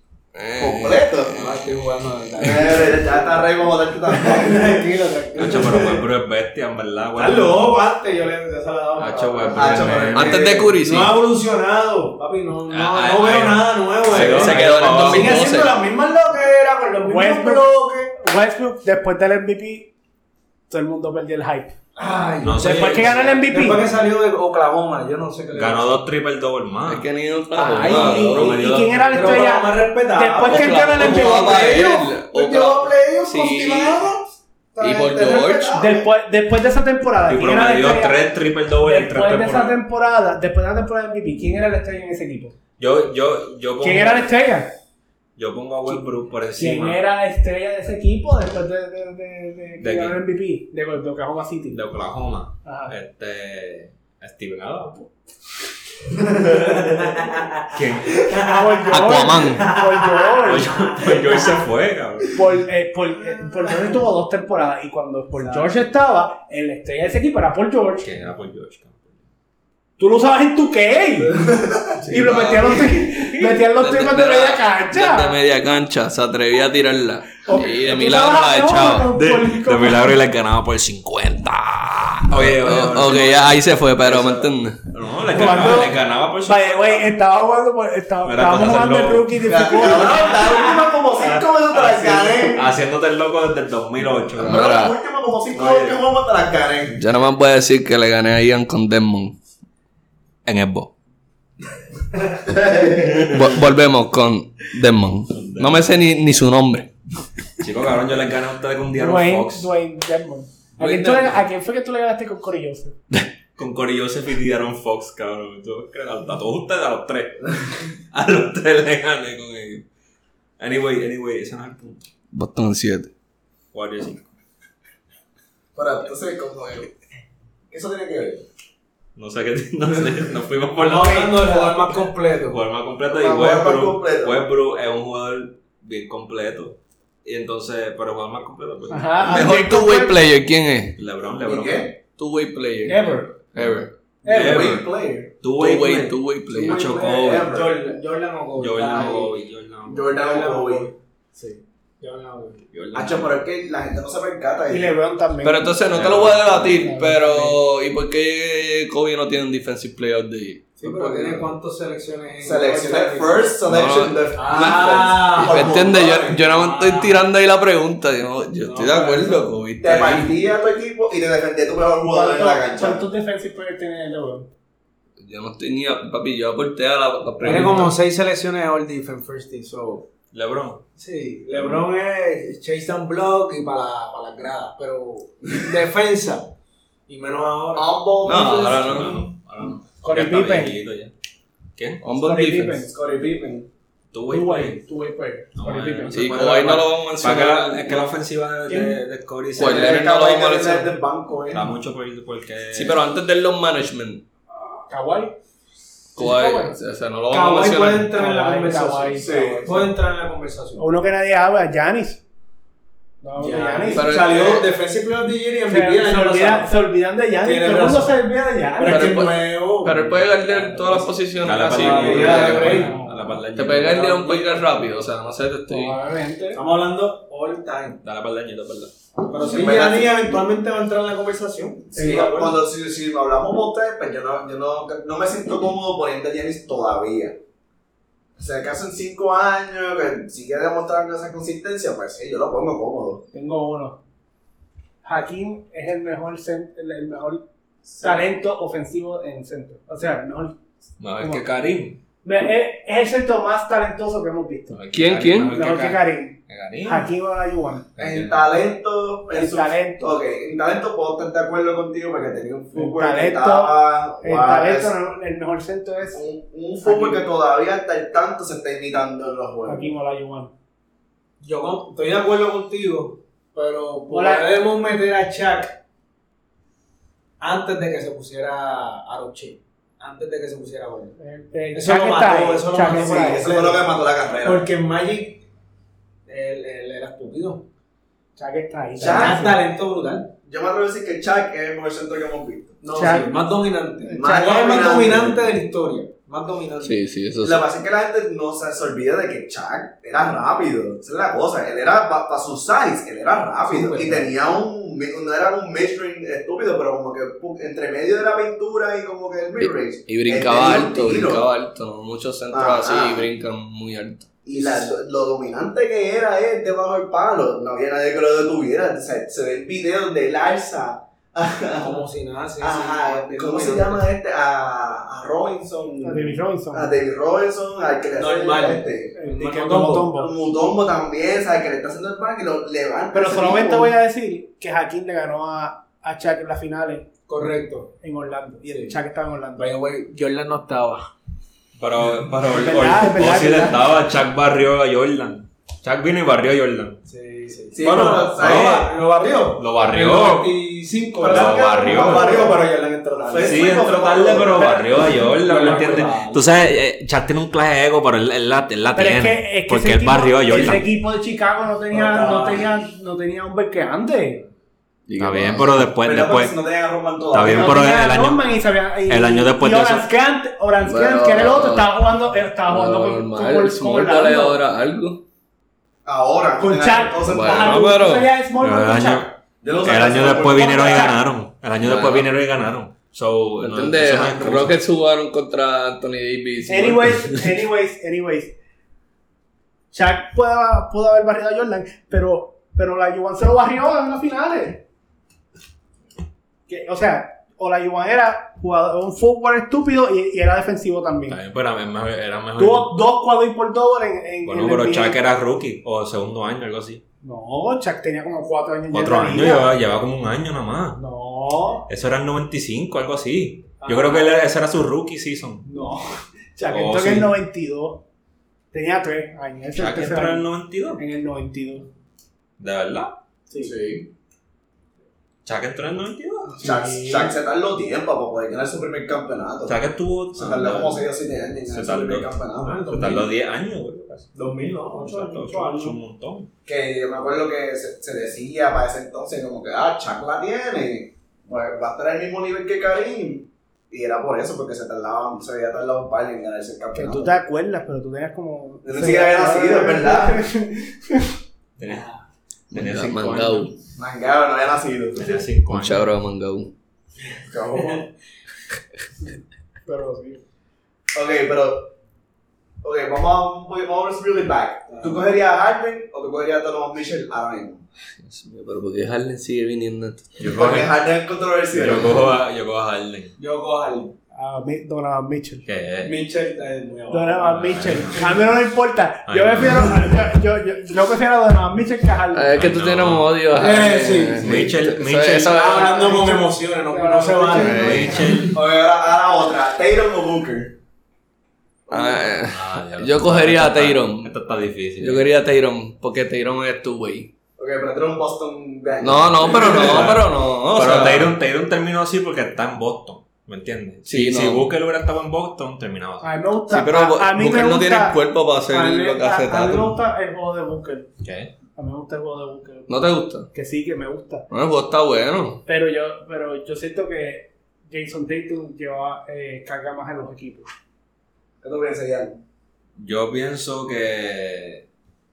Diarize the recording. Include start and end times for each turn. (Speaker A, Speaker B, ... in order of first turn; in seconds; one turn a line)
Speaker A: 0.3-2.7
Speaker B: 0.6-1.4
Speaker C: 1.4-3.3
Speaker B: 2.4-4.9
Speaker C: 4.1-6.1
Speaker D: 5.4-7.8
Speaker C: 7.2-10.1
Speaker D: 9.0-10.5
Speaker B: 9.5-10.7
Speaker A: 10.1-11.2
Speaker C: 10.8-18.1
Speaker D: 12.7-15.5
Speaker A: 14.1-15.8
Speaker E: 17.0-19.9
Speaker E: 20.7-21.7
Speaker C: 22.0-26.0
Speaker D: 22.4-24.0
Speaker E: 22.6-23.8
Speaker D: 25.5-29.6
Speaker A: 26.9-28.7
Speaker C: 27.6-28.4
Speaker E: 27.8-31.8
Speaker C: 29.1-34.3
Speaker A: 30.5-34.0
Speaker B: 34.8-36.1
Speaker A: 34.8-35.8
Speaker E: 35.8-38.3
Speaker D: 37.2-39.8
Speaker E: 38.8-42.5
Speaker D: 42.8-44.3
Speaker E: 43.8-44.7
Speaker D: 45.4-47.0
Speaker E: 46.5-51.8
Speaker D: 49.8-50.2
Speaker D: 51.7-55.1
Speaker E: 52.6-52.9
Speaker D: 56.3-58.3
Speaker C: 57.1-57.4
Speaker E: 58.2-60.9
Speaker C: 58.3-60.5
Speaker A: 58.9-59.7
Speaker D: 60.4-62.4
Speaker E: 62.3-68.1
Speaker D: 68.0-69.0
Speaker E: 70.0-71.5
Speaker B: 71.5-71.8
Speaker A: 72.0-73.1
Speaker E: 72.1-75.4
Speaker A: 73.7-79.1
Speaker E: 77.4-80.2
Speaker D: 79.1-87.1
Speaker A: 82.4-84.9
Speaker E: 85.3-90.7
Speaker D: 88.2-89.5
Speaker B: 89.5-92.7
Speaker D: 91.3-94.7
Speaker A: 94.4-95.0
Speaker B: 94.4-97.0
Speaker D: 95.5-96.0
Speaker A: 97.0-99.4
Speaker D: 100.5-100.9
Speaker D: 102.9-103.6
Speaker A: 103.3-106.9
Speaker D: 105.3-105.8
Speaker D: 107.6-109.7
Speaker E: 108.9-113.0
Speaker A: 110.8-111.4
Speaker D: 113.6-119.9
Speaker D: 120.6-122.0
Speaker A: 122.3-123.1
Speaker D: 123.7-124.3
Speaker B: 125.8-126.9
Speaker B: 127.7-128.4
Speaker D: 129.2-131.5
Speaker C: 130.8-132.6
Speaker E: 131.0-131.7
Speaker D: 132.5-139.8
Speaker B: 133.1-134.5
Speaker E: 138.9-140.1
Speaker A: 139.2-140.9
Speaker D: 141.0-141.9
Speaker B: 141.4-141.9
Speaker A: 142.2-143.9
Speaker E: 142.9-143.3
Speaker D: 143.6-144.9
Speaker C: 144.2-144.8
Speaker B: 144.2-145.3
Speaker D: 145.4-147.6
Speaker A: 145.6-146.8
Speaker B: 146.6-148.0
Speaker C: 147.4-149.3
Speaker D: 148.6-150.1
Speaker B: 149.9-150.9
Speaker C: 150.1-152.6
Speaker D: 152.7-153.4
Speaker B: 152.9-154.9
Speaker E: 154.7-155.8
Speaker A: 155.4-161.5
Speaker D: 155.9-156.9
Speaker E: 156.8-157.6
Speaker C: 160.8-163.5
Speaker B: 162.4-166.4
Speaker A: 163.7-170.3
Speaker C: 164.4-167.2
Speaker C: 168.6-169.5
Speaker B: 169.8-173.0
Speaker E: 172.1-174.5
Speaker A: 175.2-177.9
Speaker C: 177.4-180.1
Speaker D: 180.3-180.8
Speaker C: 181.0-186.5
Speaker D: 181.5-181.9
Speaker C: 187.1-188.7
Speaker B: 187.7-189.1
Speaker A: 188.2-189.1
Speaker D: 188.6-191.1
Speaker E: 190.0-190.8
Speaker D: 191.8-192.0
Speaker A: 192.0-192.9
Speaker E: 192.2-192.9
Speaker B: 192.9-193.7
Speaker D: 194.1-194.8
Speaker E: 194.3-196.3
Speaker D: 195.6-200.1
Speaker A: 196.1-198.1
Speaker A: 199.6-200.9
Speaker B: 199.6-201.7
Speaker D: 201.5-203.0
Speaker A: 202.7-204.2
Speaker E: 204.9-205.3
Speaker A: 206.2-208.1
Speaker E: 206.2-206.7
Speaker C: 207.3-210.8
Speaker E: 208.1-209.5
Speaker B: 209.2-209.9
Speaker E: 210.8-212.2
Speaker E: 213.2-214.2
Speaker C: 213.4-216.8
Speaker A: 213.9-214.7
Speaker E: 215.7-219.2
Speaker C: 217.4-218.2
Speaker C: 218.8-223.1
Speaker A: 218.8-222.9
Speaker D: 221.4-224.2
Speaker E: 222.5-223.2
Speaker A: 223.6-226.0
Speaker C: 224.1-224.7
Speaker E: 225.7-226.6
Speaker C: 226.5-228.0
Speaker D: 228.0-228.9
Speaker C: 229.3-232.6
Speaker B: 229.4-230.4
Speaker B: 231.9-237.4
Speaker B: 238.4-243.2
Speaker E: 243.3-244.0
Speaker E: 245.0-247.4
Speaker E: 248.0-250.6
Speaker D: 251.0-252.0
Speaker E: 251.2-251.5
Speaker E: 252.2-254.8
Speaker D: 254.7-257.1
Speaker A: 254.9-255.5
Speaker E: 255.5-257.9
Speaker D: 258.0-258.4
Speaker B: 258.0-264.9
Speaker E: 259.3-260.1
Speaker E: 262.8-266.3
Speaker B: 266.1-269.9
Speaker E: 266.8-267.2
Speaker E: 269.7-270.5
Speaker C: 271.4-275.8
Speaker E: 274.1-274.5
Speaker C: 277.4-281.2
Speaker E: 281.2-283.5
Speaker C: 281.7-283.9
Speaker B: 282.8-284.7
Speaker C: 284.4-285.4
Speaker C: 286.3-287.7
Speaker E: 288.4-289.6
Speaker C: 289.0-290.3
Speaker B: 289.0-289.5
Speaker B: 290.5-292.8
Speaker C: 292.8-297.0
Speaker E: 292.9-293.4
Speaker B: 294.1-295.5
Speaker A: 296.8-297.7
Speaker B: 297.4-311.5
Speaker C: 303.7-304.3
Speaker A: 309.6-314.7
Speaker B: 312.5-313.3
Speaker B: 314.5-322.0
Speaker C: 321.8-324.0
Speaker B: 322.6-329.1
Speaker E: 326.0-326.9
Speaker C: 328.2-330.1
Speaker E: 329.2-330.3
Speaker B: 330.1-333.9
Speaker E: 333.1-337.1
Speaker C: 337.3-337.9
Speaker E: 338.0-339.7
Speaker C: 338.7-339.0
Speaker C: 339.6-341.1
Speaker D: 341.8-347.0
Speaker E: 342.5-343.8
Speaker C: 347.1-353.8
Speaker B: 347.7-349.5
Speaker D: 347.8-348.9
Speaker D: 349.6-350.6
Speaker B: 351.2-352.7
Speaker D: 351.2-352.5
Speaker B: 353.2-355.1
Speaker D: 353.4-360.9
Speaker C: 355.2-356.4
Speaker E: 358.9-364.4
Speaker B: 361.9-362.6
Speaker A: 365.1-365.9
Speaker D: 365.2-366.6
Speaker B: 366.0-367.8
Speaker D: 367.3-368.5
Speaker E: 367.4-374.6
Speaker D: 369.0-370.1
Speaker A: 370.8-372.0
Speaker A: 372.6-375.2
Speaker B: 376.1-377.9
Speaker E: 376.6-379.3
Speaker A: 377.3-378.4
Speaker D: 378.6-384.8
Speaker B: 379.6-381.2
Speaker E: 380.6-381.2
Speaker A: 381.8-382.3
Speaker A: 383.6-387.5
Speaker E: 386.7-388.5
Speaker E: 389.9-394.8
Speaker E: 396.7-401.4
Speaker D: 401.3-403.0
Speaker E: 402.6-405.2
Speaker D: 404.4-407.0
Speaker E: 407.2-409.8
Speaker D: 408.9-411.0
Speaker E: 411.0-411.9
Speaker D: 411.9-415.6
Speaker E: 413.8-414.4
Speaker E: 415.7-418.0
Speaker D: 416.7-417.4
Speaker E: 418.7-421.9
Speaker D: 419.8-421.0
Speaker D: 422.6-423.2
Speaker D: 425.4-426.6
Speaker E: 426.5-427.4
Speaker B: 426.6-429.8
Speaker D: 429.7-431.0
Speaker B: 430.4-433.2
Speaker D: 431.7-432.3
Speaker C: 432.6-433.3
Speaker D: 432.9-434.3
Speaker C: 434.3-435.2
Speaker D: 434.9-436.5
Speaker E: 435.1-436.0
Speaker B: 436.7-447.3
Speaker E: 446.9-451.3
Speaker B: 448.8-450.5
Speaker D: 451.8-452.1
Speaker D: 452.7-453.7
Speaker A: 452.7-453.8
Speaker B: 454.0-455.4
Speaker D: 455.2-456.1
Speaker A: 455.7-456.7
Speaker B: 457.4-458.1
Speaker E: 459.9-460.4
Speaker B: 461.1-461.9
Speaker B: 462.8-467.8
Speaker C: 464.9-465.2
Speaker A: 468.2-470.4
Speaker D: 470.4-471.0
Speaker B: 470.4-472.4
Speaker D: 471.7-473.4
Speaker C: 473.4-474.1
Speaker E: 474.4-475.6
Speaker D: 475.6-476.2
Speaker C: 476.0-478.0
Speaker E: 477.1-482.6
Speaker D: 477.5-478.4
Speaker D: 479.3-480.1
Speaker A: 482.3-486.2
Speaker D: 482.5-483.6
Speaker C: 483.5-484.8
Speaker D: 484.4-485.7
Speaker C: 485.4-488.5
Speaker E: 485.6-488.3
Speaker A: 487.6-488.1
Speaker D: 487.6-488.6
Speaker B: 488.5-490.8
Speaker A: 491.9-494.3
Speaker D: 492.5-495.3
Speaker A: 495.0-497.3
Speaker B: 497.6-500.2
Speaker A: 499.0-501.3
Speaker D: 499.5-506.3
Speaker A: 504.1-504.7
Speaker E: 506.2-511.1
Speaker A: 506.7-510.0
Speaker D: 511.2-511.5
Speaker E: 511.8-513.0
Speaker A: 512.9-513.5
Speaker E: 513.5-514.5
Speaker A: 514.5-515.6
Speaker E: 515.7-520.7
Speaker B: 521.6-522.4
Speaker D: 523.0-524.9